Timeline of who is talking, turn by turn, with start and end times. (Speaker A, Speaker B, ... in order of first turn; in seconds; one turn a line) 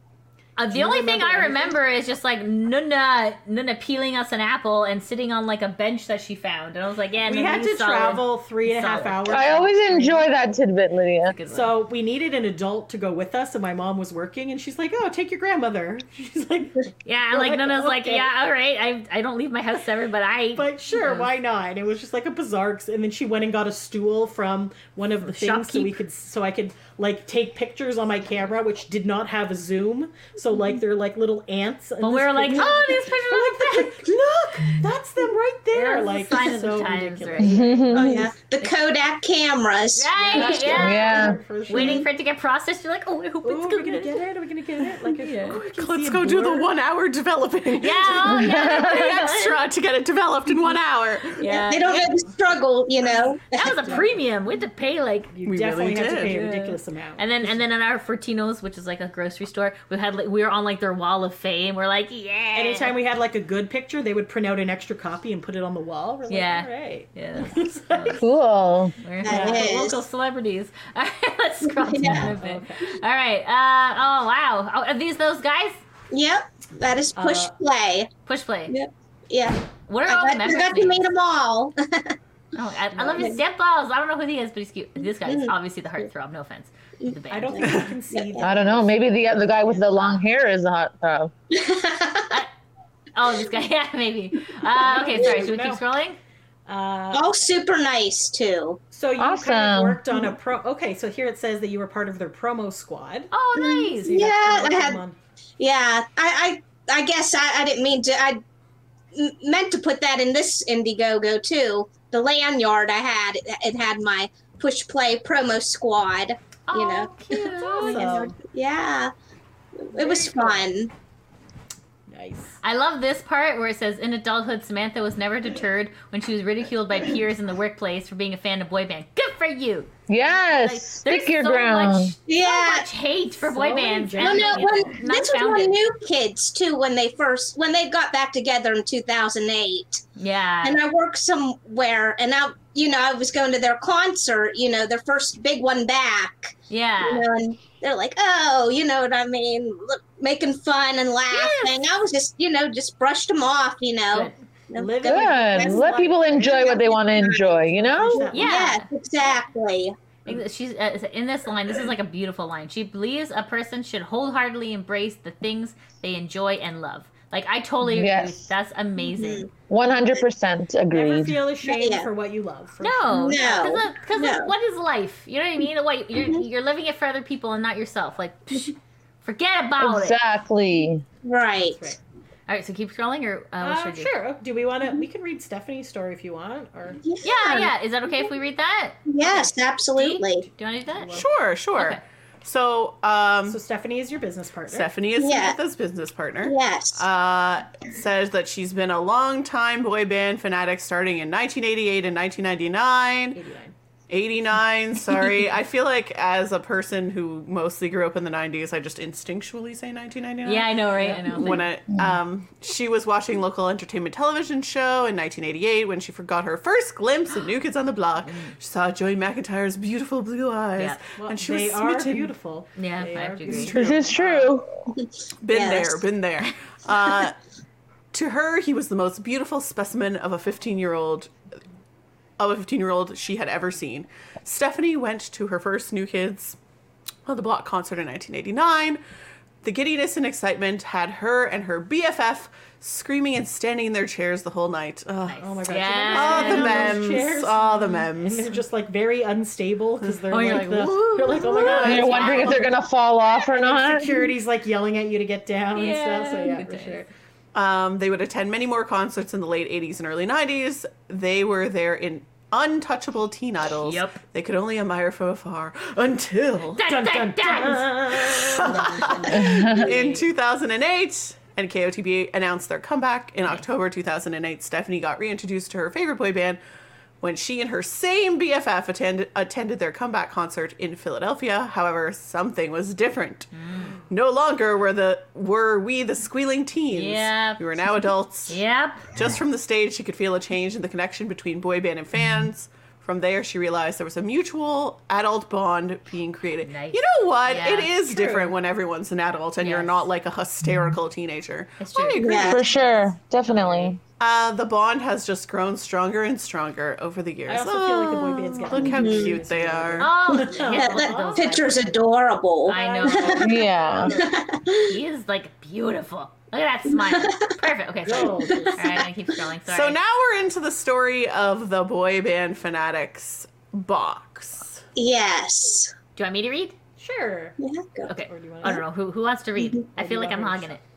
Speaker A: 0.6-9.7
Speaker B: 0.7-1.8
Speaker B: 7.3-10.3
Speaker C: 9.3-11.4
Speaker A: 11.3-11.7
Speaker B: 11.5-18.3
Speaker A: 17.1-21.3
Speaker B: 20.5-38.3
Speaker A: 25.2-26.0
Speaker A: 32.0-34.0
Speaker A: 35.7-38.7
Speaker C: 37.4-38.2
Speaker D: 37.9-40.9
Speaker A: 39.9-44.2
Speaker B: 40.1-42.1
Speaker C: 40.8-41.4
Speaker D: 41.8-42.0
Speaker B: 43.4-46.7
Speaker A: 45.0-45.6
Speaker E: 45.6-51.4
Speaker A: 47.8-49.6
Speaker C: 48.3-49.2
Speaker A: 51.4-52.2
Speaker D: 51.5-54.0
Speaker A: 53.5-55.3
Speaker B: 53.7-54.2
Speaker B: 55.3-57.6
Speaker E: 55.5-56.3
Speaker A: 56.2-63.0
Speaker B: 62.5-68.3
Speaker A: 66.3-68.3
Speaker C: 68.2-69.0
Speaker A: 69.0-75.8
Speaker D: 69.2-70.0
Speaker B: 69.2-69.8
Speaker D: 71.7-72.3
Speaker B: 72.3-72.9
Speaker D: 76.1-78.1
Speaker B: 77.2-77.5
Speaker A: 78.2-78.8
Speaker D: 78.7-82.2
Speaker A: 79.9-81.1
Speaker A: 82.5-87.8
Speaker B: 83.0-83.4
Speaker D: 85.3-85.5
Speaker D: 87.0-88.5
Speaker B: 87.3-90.1
Speaker E: 87.6-87.9
Speaker C: 88.4-91.3
Speaker D: 91.5-92.3
Speaker A: 93.2-96.2
Speaker B: 94.7-95.8
Speaker B: 96.7-97.4
Speaker D: 97.1-98.8
Speaker B: 98.9-103.3
Speaker C: 99.2-100.0
Speaker A: 103.3-104.3
Speaker D: 103.6-105.0
Speaker B: 104.0-105.2
Speaker D: 105.6-108.4
Speaker D: 109.1-119.1
Speaker A: 116.7-118.3
Speaker B: 117.7-118.4
Speaker D: 119.8-120.9
Speaker B: 119.9-120.7
Speaker B: 122.1-122.6
Speaker A: 122.6-135.8
Speaker C: 130.1-132.2
Speaker D: 132.3-132.9
Speaker B: 133.4-135.0
Speaker D: 134.2-140.0
Speaker A: 140.2-140.8
Speaker D: 140.6-159.9
Speaker A: 146.7-147.3
Speaker A: 151.3-151.8
Speaker B: 154.7-158.8
Speaker C: 155.0-158.3
Speaker A: 158.3-158.9
Speaker A: 160.3-169.5
Speaker C: 167.8-168.4
Speaker D: 169.2-169.5
Speaker C: 169.7-171.4
Speaker B: 170.9-173.4
Speaker D: 171.7-172.1
Speaker A: 172.8-180.2
Speaker D: 173.1-174.5
Speaker C: 179.8-181.0
Speaker D: 181.2-181.9
Speaker B: 181.6-182.0
Speaker A: 182.5-184.1
Speaker B: 183.6-187.0
Speaker D: 187.0-187.7
Speaker A: 187.2-192.0
Speaker D: 189.1-190.5
Speaker B: 190.8-191.3
Speaker E: 191.1-193.6
Speaker B: 193.5-194.9
Speaker E: 194.7-203.4
Speaker D: 195.2-195.6
Speaker D: 196.4-197.0
Speaker B: 203.3-203.7
Speaker E: 204.1-222.3
Speaker A: 210.4-211.7
Speaker B: 211.0-211.6
Speaker A: 218.2-218.6
Speaker B: 221.2-224.5
Speaker A: 222.8-223.8
Speaker E: 223.5-224.2
Speaker C: 223.7-224.7
Speaker D: 224.9-226.0
Speaker E: 225.4-227.4
Speaker E: 228.1-231.3
Speaker E: 232.4-236.6
Speaker E: 237.3-239.0
Speaker E: 239.6-245.5
Speaker A: 245.3-247.0
Speaker B: 245.4-252.7
Speaker E: 246.1-248.6
Speaker A: 250.3-252.7
Speaker E: 250.4-252.2
Speaker C: 251.8-254.1
Speaker B: 253.3-257.1
Speaker A: 255.7-257.1
Speaker E: 257.5-266.8
Speaker A: 263.8-264.2
Speaker A: 266.8-270.2
Speaker B: 266.8-270.1
Speaker E: 268.1-276.6
Speaker C: 269.3-269.8
Speaker E: 277.2-283.5
Speaker A: 283.5-284.0
Speaker E: 284.1-288.6
Speaker A: 286.9-287.6
Speaker A: 288.5-289.1
Speaker E: 289.1-302.7
Speaker A: 296.6-297.9
Speaker B: 298.0-298.6
Speaker A: 299.6-300.1
Speaker A: 301.8-304.0
Speaker D: 302.2-302.6
Speaker C: 302.3-304.0
Speaker E: 304.2-310.1
Speaker B: 307.5-311.8
Speaker D: 308.8-309.4
Speaker A: 310.0-312.0
Speaker D: 310.3-313.6
Speaker A: 312.7-313.5
Speaker B: 312.7-314.3
Speaker C: 313.4-314.2
Speaker D: 314.1-315.0
Speaker A: 314.9-320.0
Speaker D: 316.9-317.6
Speaker B: 318.1-319.1
Speaker D: 318.1-319.0
Speaker E: 319.7-324.8
Speaker D: 325.0-325.9
Speaker A: 326.2-326.8
Speaker B: 327.0-327.6
Speaker D: 327.6-328.1
Speaker A: 328.1-330.8
Speaker B: 328.2-328.8
Speaker D: 329.6-329.8
Speaker B: 329.9-330.8